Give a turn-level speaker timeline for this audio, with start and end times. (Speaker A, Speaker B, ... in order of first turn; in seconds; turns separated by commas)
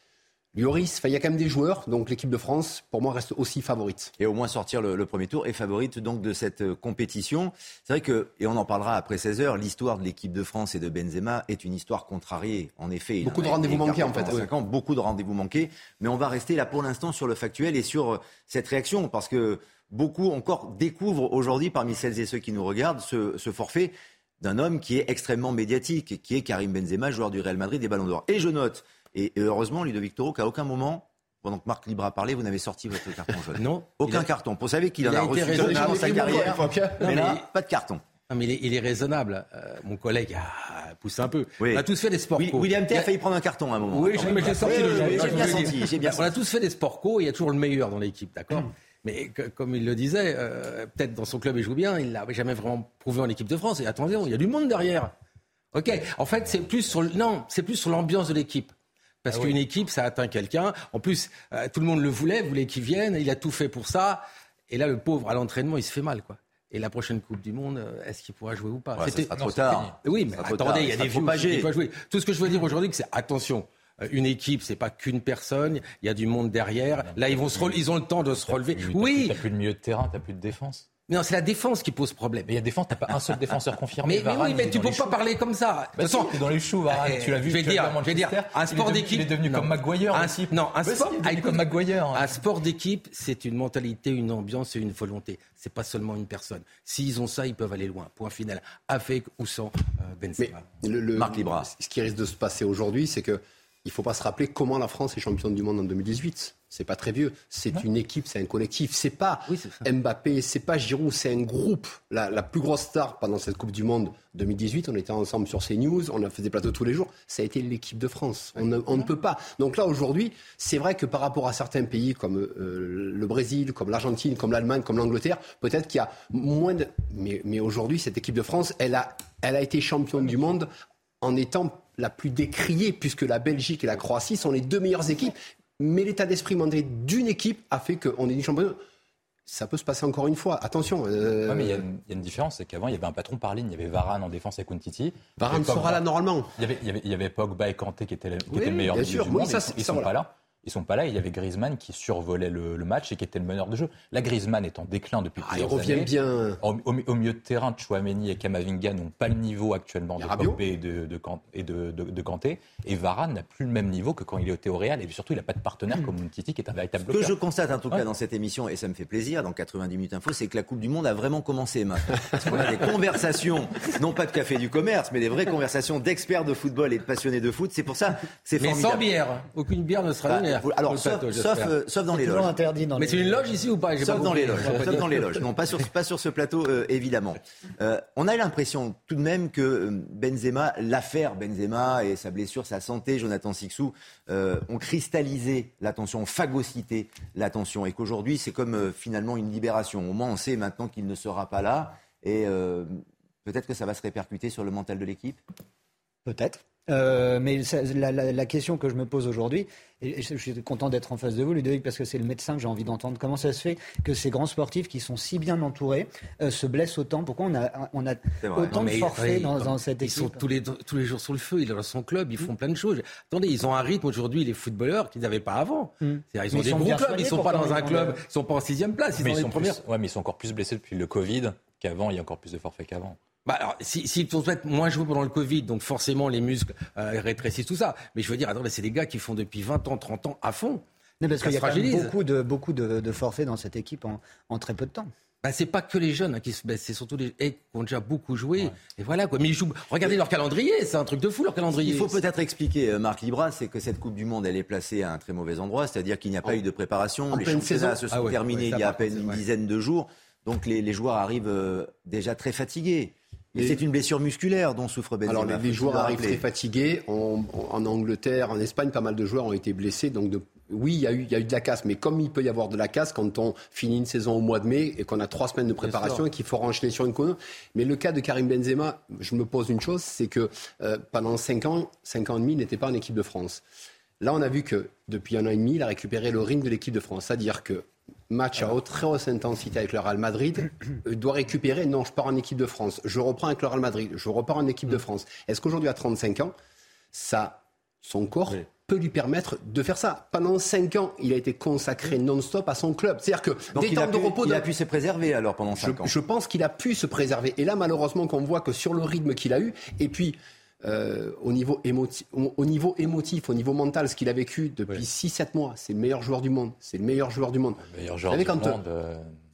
Speaker A: 0.5-4.1, Speaker B: 4.2-38.0, Speaker A: 13.2-14.5, Speaker C: 33.6-34.3, Speaker C: 35.0-37.4, Speaker A: 35.4-37.0, Speaker C: 38.3-43.1, Speaker B: 41.6-41.8, Speaker B: 42.4-46.3, Speaker C: 43.9-55.1, Speaker C: 55.7-58.7, Speaker C: 59.2-69.4, Speaker B: 69.0-71.7, Speaker D: 69.1-70.0, Speaker C: 70.0-79.3, Speaker D: 77.1-77.8, Speaker D: 78.5-80.8, Speaker C: 81.1-82.5, Speaker D: 82.5-85.2, Speaker C: 84.0-100.7, Speaker D: 86.0-92.4, Speaker A: 100.4-130.7, Speaker B: 101.2-101.7, Speaker C: 109.5-109.8, Speaker A: 131.2-138.8, Speaker A: 139.5-141.8, Speaker D: 141.5-146.0, Speaker A: 145.4-146.5, Speaker D: 146.6-167.3, Speaker A: 148.5-150.1, Speaker A: 155.4-156.6, Speaker A: 160.2-160.6, Speaker B: 167.1-179.1, Speaker C: 178.6-181.7, Speaker B: 180.2-182.5, Speaker E: 182.1-183.5, Speaker C: 182.9-185.4, Speaker B: 184.0-205.4, Speaker E: 206.2-220.4, Speaker B: 218.4-218.9, Speaker C: 218.8-229.8, Speaker E: 226.0-228.2, Speaker D: 229.2-233.2, Speaker C: 233.4-240.8, Speaker E: 241.2-245.1, Speaker C: 241.4-242.1, Speaker C: 245.4-252.2, Speaker B: 251.8-266.4, Speaker A: 257.3-257.9, Speaker C: 258.1-259.4, Speaker A: 265.3-283.6, Speaker C: 275.8-276.2, Speaker A: 284.2-296.5, Speaker A: 297.1-304.6, Speaker B: 303.7-306.1, Speaker A: 305.8-318.8, Speaker D: 317.8-319.4